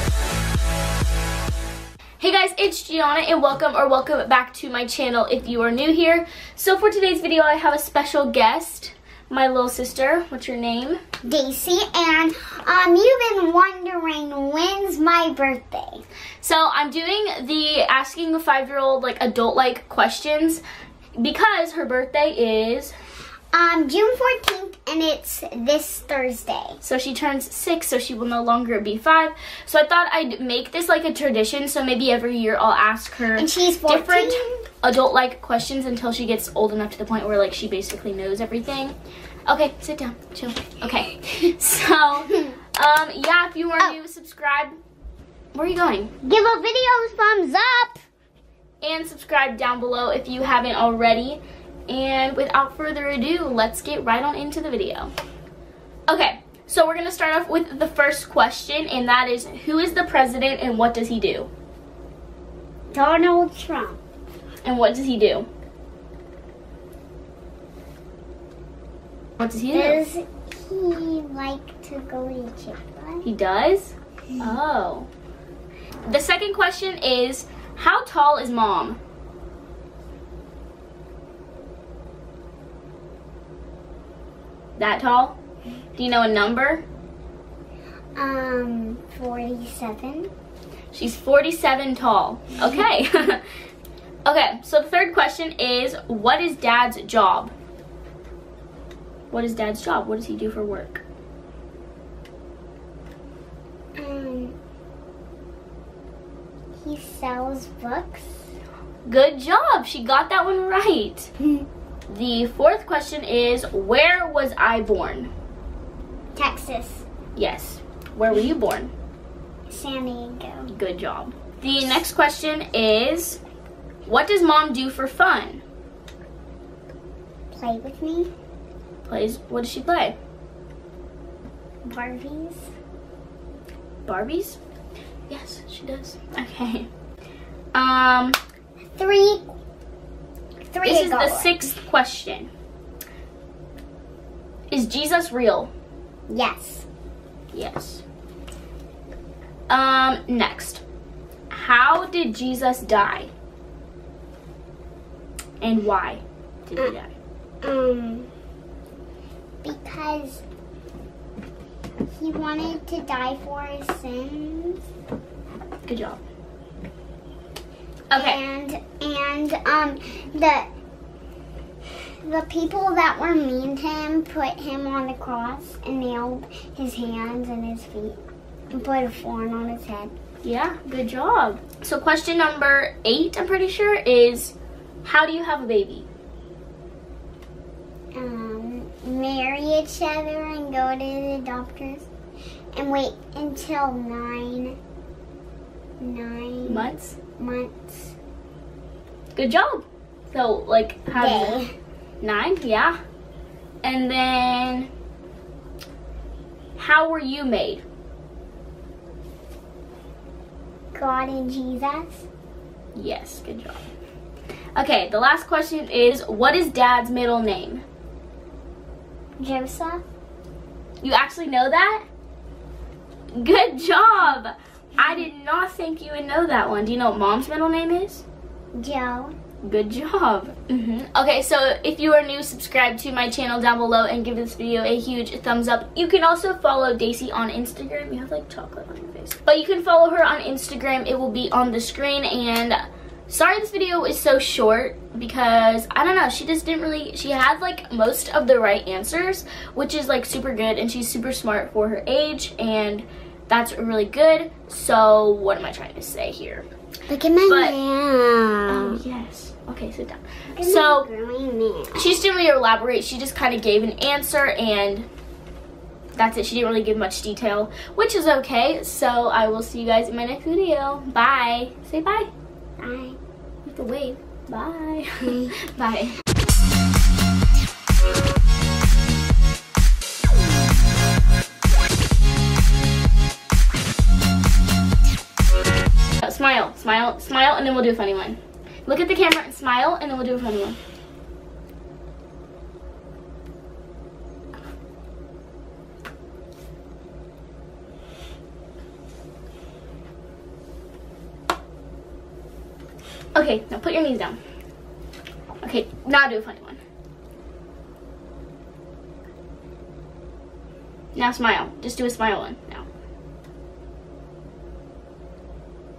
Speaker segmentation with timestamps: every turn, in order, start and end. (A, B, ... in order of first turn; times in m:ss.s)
0:02.2-0:11.0 A
0:11.2-0:16.0 B
0:16.4-0:20.6 A
0:21.2-0:22.9 A
0:23.5-0:26.8 B
0:26.8-0:39.0 A
0:33.3-0:34.6 B
0:39.5-0:44.7 A
0:45.5-0:46.1 A
0:46.2-0:48.0 B
0:48.8-0:55.1 A
0:56.1-1:01.5 A
1:02.9-1:04.0 B
1:04.6-1:05.5 A
1:09.4-1:10.0 A
1:09.7-1:13.3 B
1:13.2-1:15.1 A
1:16.0-1:19.0 A
1:24.8-1:25.4 A
1:26.0-1:26.8 A
1:28.2-1:30.3 B
1:30.9-1:33.4 A
1:34.2-1:37.5 A
1:39.3-1:41.0 A
1:44.0-1:44.5 B
1:46.8-1:48.5 B
1:49.0-1:51.3 A
1:52.1-1:55.3 A
1:56.3-1:57.0 B
1:57.4-1:58.9 A
1:59.7-2:00.7 B
2:00.6-2:03.4 A
2:04.0-2:05.6 A
2:07.5-2:08.3 B
2:09.0-2:10.2 A
2:11.9-2:12.7 B
2:14.0-2:14.6 A
2:15.3-2:16.9 A
2:17.7-2:18.4 A
2:19.0-2:19.5 B
2:20.7-2:21.6 B
2:20.8-2:22.5 A
2:24.7-2:25.7 A
2:26.3-2:26.8 B
2:27.5-2:28.0 A
2:29.7-2:30.8 A
2:31.5-2:33.3 A
2:35.6-2:37.1 A
2:37.6-2:38.3 B
2:39.6-2:40.4 B
2:42.1-2:44.8 B
2:45.8-2:46.2 A
2:48.1-2:48.4 A
2:48.1-2:50.7 B
2:52.2-2:58.2 B
2:58.7-3:00.1 B
3:00.4-3:06.1 A
3:08.1-3:12.1 B
3:12.7-3:14.8 B
3:16.0-3:18.1 B
3:16.6-3:17.2 A
3:19.3-3:21.6 A
3:21.1-3:21.7 B
3:22.2-3:23.0 A
3:23.8-3:24.9 A
3:26.8-3:27.8 A
3:30.9-3:32.2 B
3:32.9-3:33.9 A
3:34.8-3:37.8 A
3:39.4-3:40.0 B
3:41.0-3:42.0 A
3:43.3-3:48.2 A
3:48.7-3:49.3 B
3:49.6-4:16.7 A
4:17.1-4:19.0 B
4:17.4-4:17.8 A
4:18.7-4:21.1 A
4:20.6-4:22.2 B
4:21.9-4:25.1 A
4:26.1-4:32.3 A
4:32.8-4:33.2 B
4:33.6-4:36.1 A
4:46.2-4:50.8 A
5:03.3-5:04.4 A
5:05.6-5:06.8 A
5:11.1-5:12.8 A